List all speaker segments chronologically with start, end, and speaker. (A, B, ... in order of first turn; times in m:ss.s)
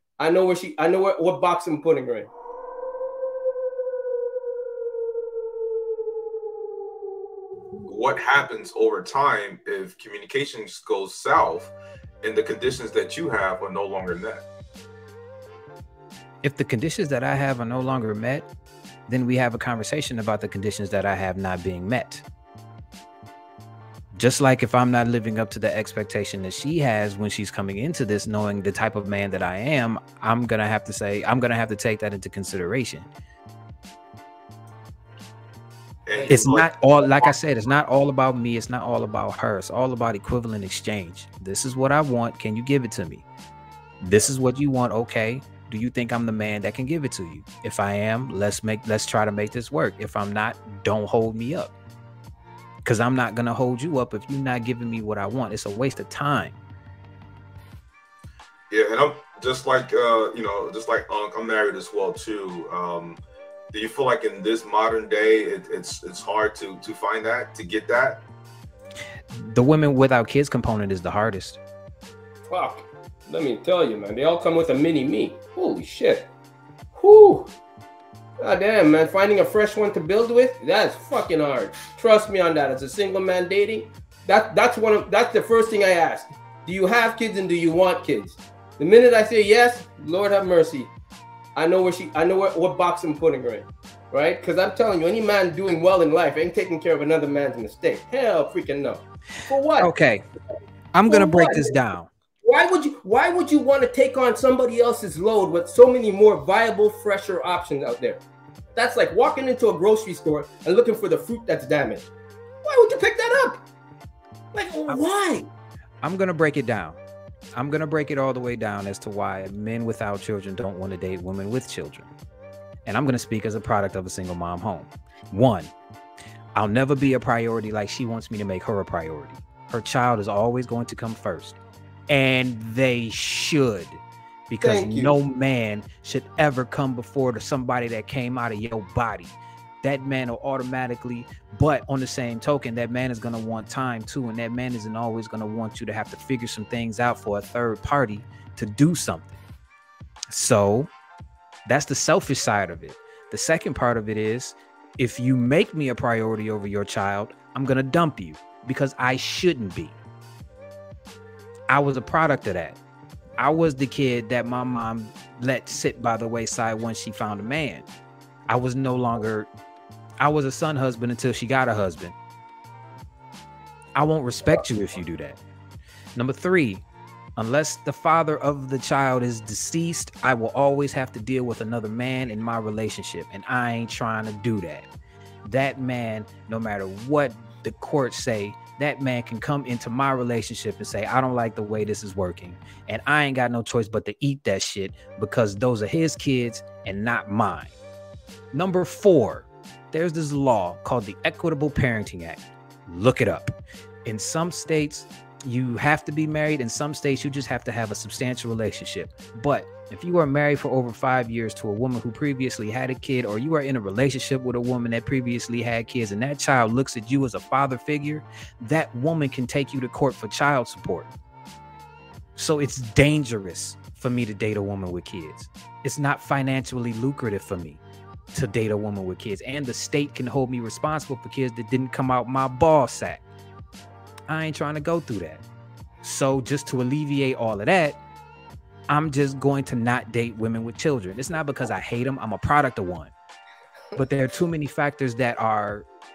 0:00.2-0:02.3 A
0:07.9-0:14.4 B
0:16.4-0:18.5 C
0:19.1-0:22.2 C
0:24.1-0:33.1 C
0:36.1-0:37.3 B
0:36.3-0:43.2 C
0:44.0-0:51.7 C
0:52.8-0:56.6 C
0:58.7-1:08.2 B
1:09.4-1:11.6 C
1:12.5-1:16.3 A
1:16.9-1:17.5 A
1:18.4-1:30.9 A
1:31.5-1:39.9 A
1:39.8-1:40.3 C
1:40.9-1:42.1 C
1:41.1-1:41.7 A
1:42.4-1:48.2 A
1:48.7-1:52.1 A
1:52.6-1:53.6 A
1:54.5-1:55.5 A
1:56.0-1:57.0 C
1:57.5-2:02.1 C
2:02.8-2:05.7 C
2:06.5-2:11.6 C
2:12.1-2:29.4 C
2:14.6-2:15.2 A
2:30.3-2:30.9 C
2:31.7-2:40.0 C
2:41.7-2:42.8 C
2:43.4-2:47.9 C
2:48.5-2:49.5 C
2:50.2-2:52.2 C
2:54.0-2:55.4 C
2:56.1-2:56.8 C
2:57.4-3:04.9 C
3:05.4-3:17.8 C
3:18.5-3:23.5 C
3:24.0-3:41.1 C
3:42.4-3:47.8 C
3:48.3-3:53.2 C
3:54.3-3:55.4 C
3:56.0-3:58.0 C
3:58.9-4:03.1 C
4:03.9-4:05.9 C